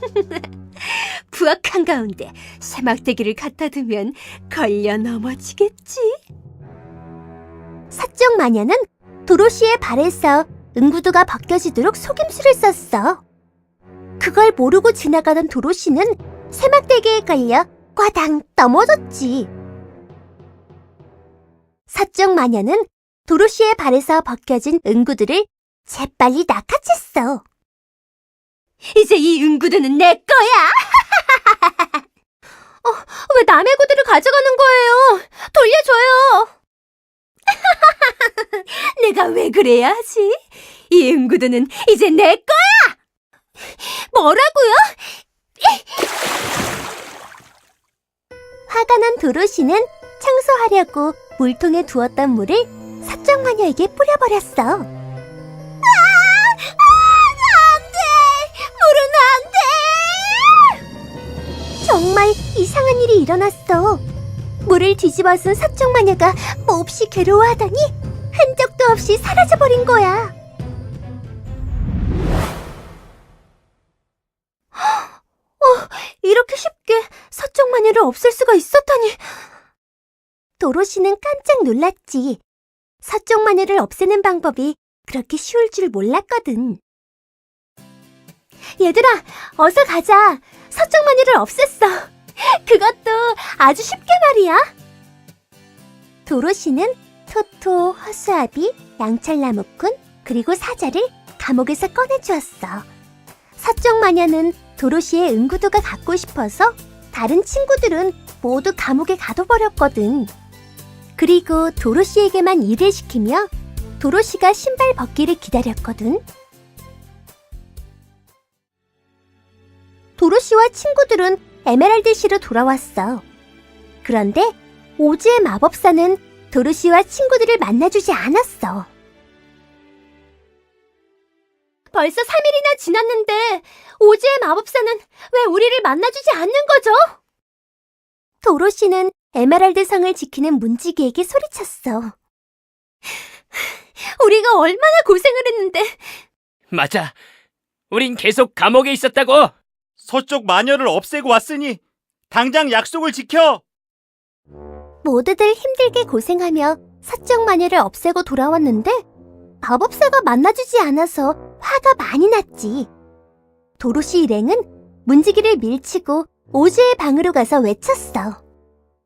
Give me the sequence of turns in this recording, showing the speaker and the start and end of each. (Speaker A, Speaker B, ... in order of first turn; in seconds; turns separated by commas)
Speaker A: 0.8-6.2, Speaker B: 7.9-13.2, Speaker B: 14.2-19.5, Speaker B: 21.9-27.4, Speaker A: 28.9-30.5, Speaker B: 30.3-30.5, Speaker A: 32.8-36.5, Speaker A: 38.8-40.3, Speaker A: 40.9-42.9, Speaker A: 43.7-44.9, Speaker B: 48.7-54.9, Speaker B: 55.8-60.6, Speaker B: 61.8-64.0, Speaker B: 64.6-70.3, Speaker A: 75.6-79.2, Speaker B: 77.1-77.3, Speaker B: 80.6-82.4, Speaker B: 83.0-86.8, Speaker B: 88.8-94.6, Speaker B: 96.3-102.9, Speaker B: 103.6-110.3, Speaker B: 111.2-113.5, Speaker B: 114.0-116.2, Speaker B: 120.2-123.2, Speaker B: 124.0-128.9, Speaker A: 131.9-137.0, Speaker B: 138.4-142.2, Speaker A: 144.2-146.0, Speaker C: 146.7-147.1, Speaker C: 147.9-149.5, Speaker D: 150.0-151.8, Speaker D: 152.3-153.6, Speaker B: 155.0-159.0, Speaker B: 159.6-162.9, Speaker B: 163.8-168.4